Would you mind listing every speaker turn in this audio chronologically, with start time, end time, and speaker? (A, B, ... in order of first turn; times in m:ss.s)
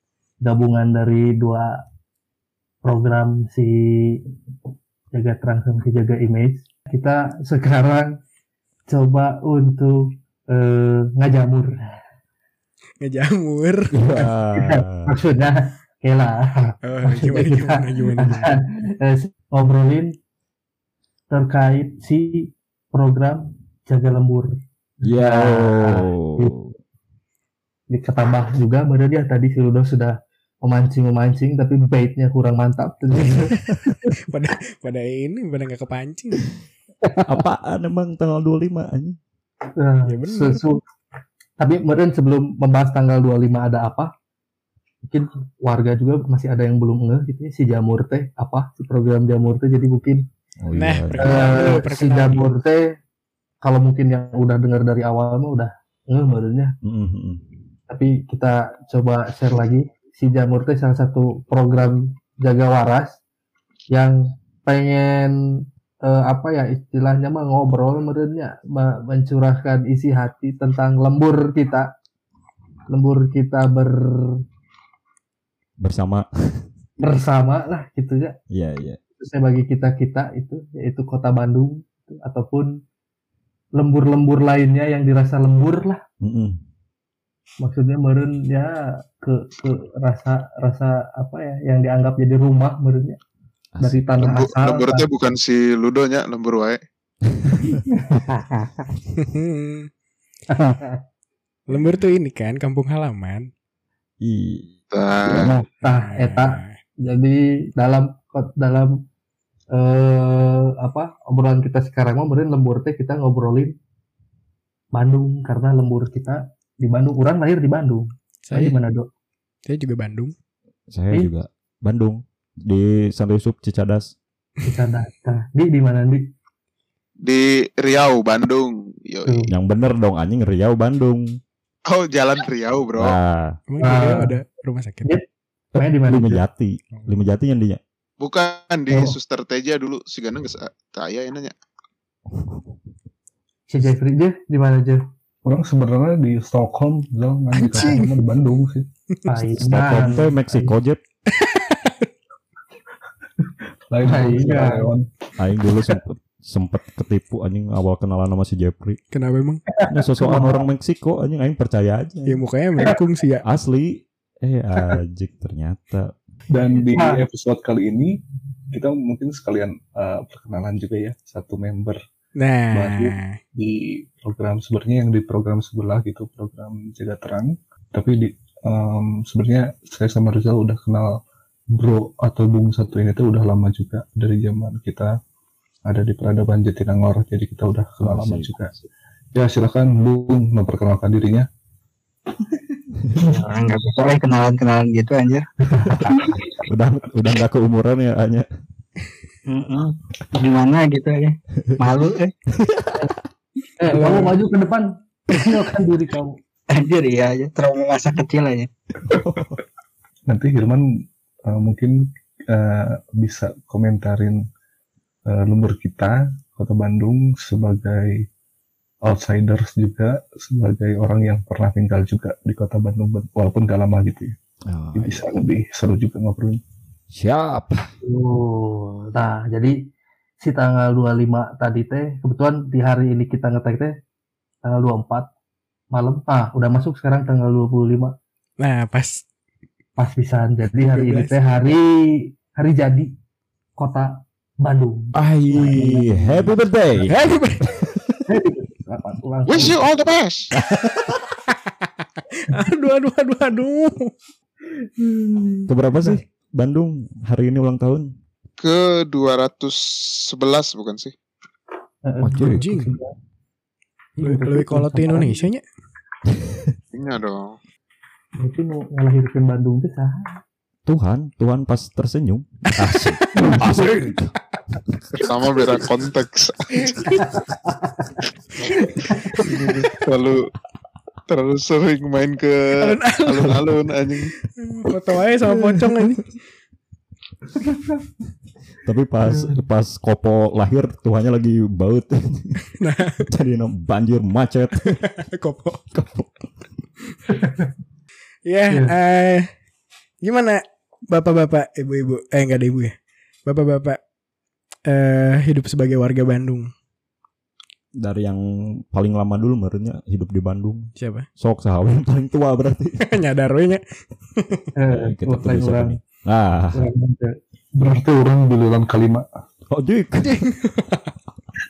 0:00.4-0:01.8 A
0:02.8-0:04.2 A
0:05.1-0:08.2 A
0:08.9-0:12.0 A
0:13.0-0:13.9 B
0:13.9-0:15.1 C
0:14.1-0:20.1 A
0:16.8-0:18.6 B
0:21.3-0:26.5 A
0:25.0-0:26.7 C
0:27.9-0:34.1 A
0:34.2-0:36.6 B
0:37.3-0:39.2 C
0:39.8-0:40.8 A
0:40.0-0:40.7 B
0:41.6-0:44.1 A
0:45.1-0:50.2 A
0:50.6-0:51.7 C
0:50.8-0:52.5 B
0:51.2-0:52.8 A
0:53.6-0:56.7 A
0:56.8-0:57.4 C
0:57.9-1:03.2 A
1:03.9-1:05.3 A
1:06.0-1:11.9 A
1:12.9-1:14.4 A
1:15.8-1:16.6 C
1:17.0-1:18.4 A
1:18.5-1:19.0 C
1:19.2-1:22.7 A
1:23.8-1:26.0 A
1:26.2-1:26.6 C
1:27.6-1:33.2 A
1:33.7-1:34.1 C
1:33.8-1:35.1 A
1:34.2-1:36.8 D
1:37.3-1:37.8 C
1:37.6-1:38.7 A
1:39.1-1:39.9 B
1:40.5-1:41.0 A
1:41.7-1:43.5 B
1:44.2-1:45.5 C
1:44.9-1:45.5 D
1:45.3-1:49.0 A
1:45.8-1:46.8 B
1:49.7-1:53.7 A
1:54.9-1:59.1 A
1:58.4-1:58.8 B
1:59.6-2:00.3 B
2:00.9-2:04.1 C
2:04.6-2:06.2 A
2:07.2-2:09.5 D
2:09.2-2:09.5 A
2:09.5-2:11.4 C
2:11.8-2:13.2 D
2:13.0-2:13.6 C
2:13.7-2:15.2 B
2:13.8-2:14.3 A
2:15.7-2:16.4 A
2:16.0-2:17.8 C
2:18.2-2:21.5 D
2:18.9-2:19.2 A
2:23.7-2:25.0 A
2:25.4-2:28.9 E
2:27.6-2:28.0 A
2:27.6-2:28.1 B
2:29.3-2:30.7 A
2:29.6-2:31.0 C
2:31.3-2:32.1 B
2:33.9-2:35.1 E
2:34.0-2:34.9 A
2:35.4-2:39.0 C
2:39.1-2:39.6 B
2:39.7-2:40.6 A
2:39.9-2:42.4 C
2:42.2-2:43.4 B
2:43.4-2:46.1 C
2:46.5-2:52.0 E
2:46.9-2:47.2 A
2:52.4-2:53.4 B
2:52.7-3:01.2 E
3:01.7-3:05.1 E
3:05.8-3:08.7 E
3:08.0-3:08.6 C
3:09.3-3:11.5 E
3:13.2-3:15.4 F
3:16.6-3:18.4 C
3:19.5-3:22.3 F
3:22.6-3:23.0 C
3:23.8-3:26.4 A
3:23.9-3:24.3 F
3:26.7-3:28.7 F
3:29.1-3:29.6 C
3:30.3-3:30.8 E
3:31.4-3:34.4 E
3:35.2-3:38.2 E
3:39.0-3:44.4 E
3:44.7-3:45.2 C
3:44.9-3:46.6 E
3:47.1-3:47.9 C
3:48.0-3:49.7 A
3:50.4-3:53.9 A
3:54.6-3:55.3 A
3:55.9-3:58.1 A
3:58.6-3:59.2 B
4:00.0-4:03.1 A
4:00.9-4:01.7 B
4:03.8-4:06.5 A
4:05.1-4:07.1 C
4:07.1-4:07.8 B
4:07.8-4:08.2 C
4:08.3-4:09.8 A
4:09.5-4:10.5 D
4:10.5-4:11.2 C
4:12.4-4:14.1 B
4:15.0-4:16.1 A
4:15.7-4:18.1 C
4:18.6-4:21.1 D
4:22.0-4:23.1 A
4:22.2-4:22.6 C
4:22.4-4:23.0 B
4:24.2-4:25.5 A
4:24.2-4:25.6 B
4:26.3-4:26.7 C
4:26.9-4:27.6 D
4:28.4-4:30.4 A
4:30.8-4:34.3 C
4:32.8-4:33.8 B
4:33.3-4:34.1 A
4:35.1-4:37.2 D
4:36.8-4:37.2 B
4:37.2-4:38.2 A
4:38.8-4:39.7 A
4:39.4-4:40.5 D
4:41.3-4:44.3 D
4:42.8-4:43.7 B
4:44.6-4:46.3 B
4:45.6-4:46.1 C
4:48.8-4:52.6 C
4:49.2-4:49.6 A
4:52.8-4:53.3 B
4:53.3-4:55.0 C
4:54.8-4:55.8 B
4:55.9-4:56.3 C
4:57.3-4:57.6 A
4:58.4-4:59.5 B
5:00.2-5:02.9 B
5:03.4-5:04.0 B
5:04.8-5:06.7 B
5:08.0-5:13.0 C
5:11.0-5:11.3 B
5:13.0-5:13.8 B
5:14.4-5:14.7 B
5:14.7-5:16.0 A
5:14.9-5:16.8 C
5:16.7-5:17.4 A
5:17.7-5:19.3 E
5:19.7-5:20.4 C
5:20.2-5:21.1 B